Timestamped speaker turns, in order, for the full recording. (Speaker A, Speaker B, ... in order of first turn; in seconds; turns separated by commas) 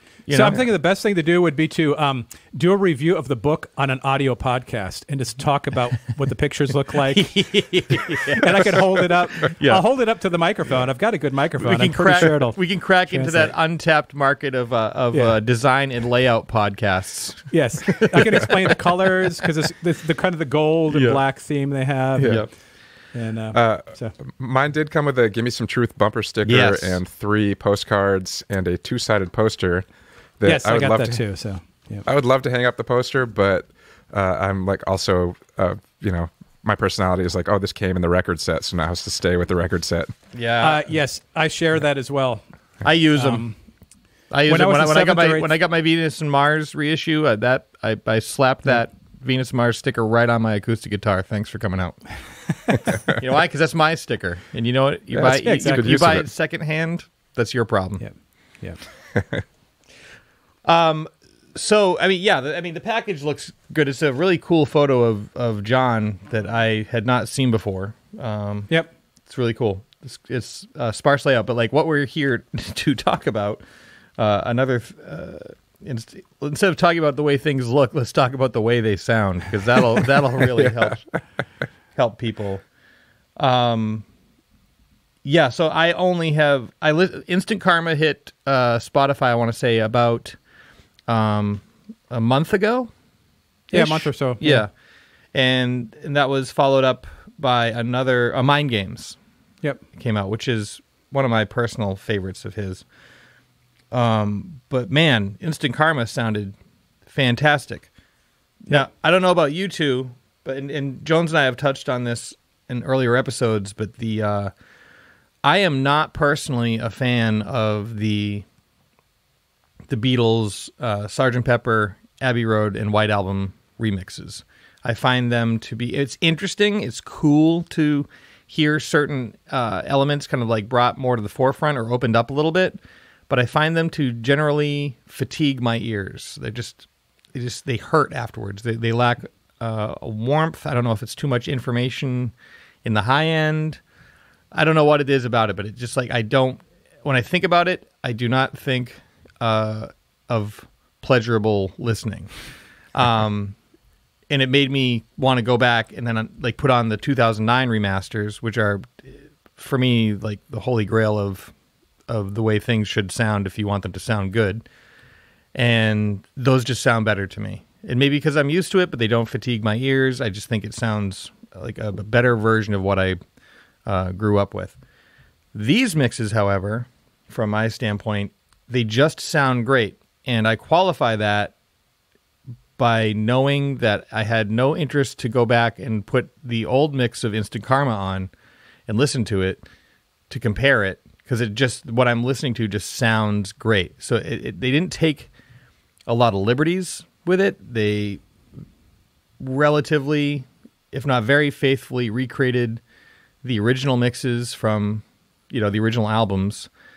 Speaker A: 0.3-0.7, Speaker B: 0.3-13.5, Speaker A: 7.1-9.8, Speaker A: 11.6-18.8, Speaker B: 15.1-15.4, Speaker B: 17.5-22.5, Speaker A: 20.9-21.2, Speaker C: 22.2-22.5, Speaker A: 22.2-22.5, Speaker B: 23.1-24.1, Speaker C: 23.5-29.9, Speaker A: 26.4-27.0, Speaker C: 30.4-31.2, Speaker B: 30.4-32.0, Speaker C: 32.0-40.1, Speaker A: 40.3-40.9, Speaker B: 40.6-42.4, Speaker A: 42.8-43.5, Speaker B: 43.1-43.5, Speaker A: 44.3-52.0, Speaker B: 44.5-45.5, Speaker A: 53.1-58.0, Speaker C: 55.1-56.2, Speaker B: 55.2-56.0, Speaker B: 58.0-58.8, Speaker C: 59.1-59.4, Speaker A: 60.6-68.7, Speaker A: 69.3-73.6, Speaker A: 74.2-81.0, Speaker A: 81.9-82.6, Speaker A: 83.4-84.0, Speaker A: 85.2-90.4, Speaker A: 91.1-92.9, Speaker B: 93.7-94.6, Speaker A: 93.7-94.7, Speaker A: 95.3-99.2, Speaker A: 99.9-102.8, Speaker A: 103.9-106.5, Speaker A: 107.1-107.9, Speaker A: 108.7-114.5, Speaker A: 115.4-118.4, Speaker A: 119.9-143.8, Speaker A: 144.5-152.3, Speaker A: 152.9-153.6, Speaker A: 154.3-161.5, Speaker A: 162.1-164.6, Speaker A: 165.5-173.2, Speaker A: 173.8-174.8, Speaker A: 175.5-181.5, Speaker A: 182.8-188.3, Speaker A: 188.9-189.6, Speaker A: 190.3-195.3, Speaker A: 196.1-198.2, Speaker A: 199.4-202.8, Speaker A: 203.4-206.7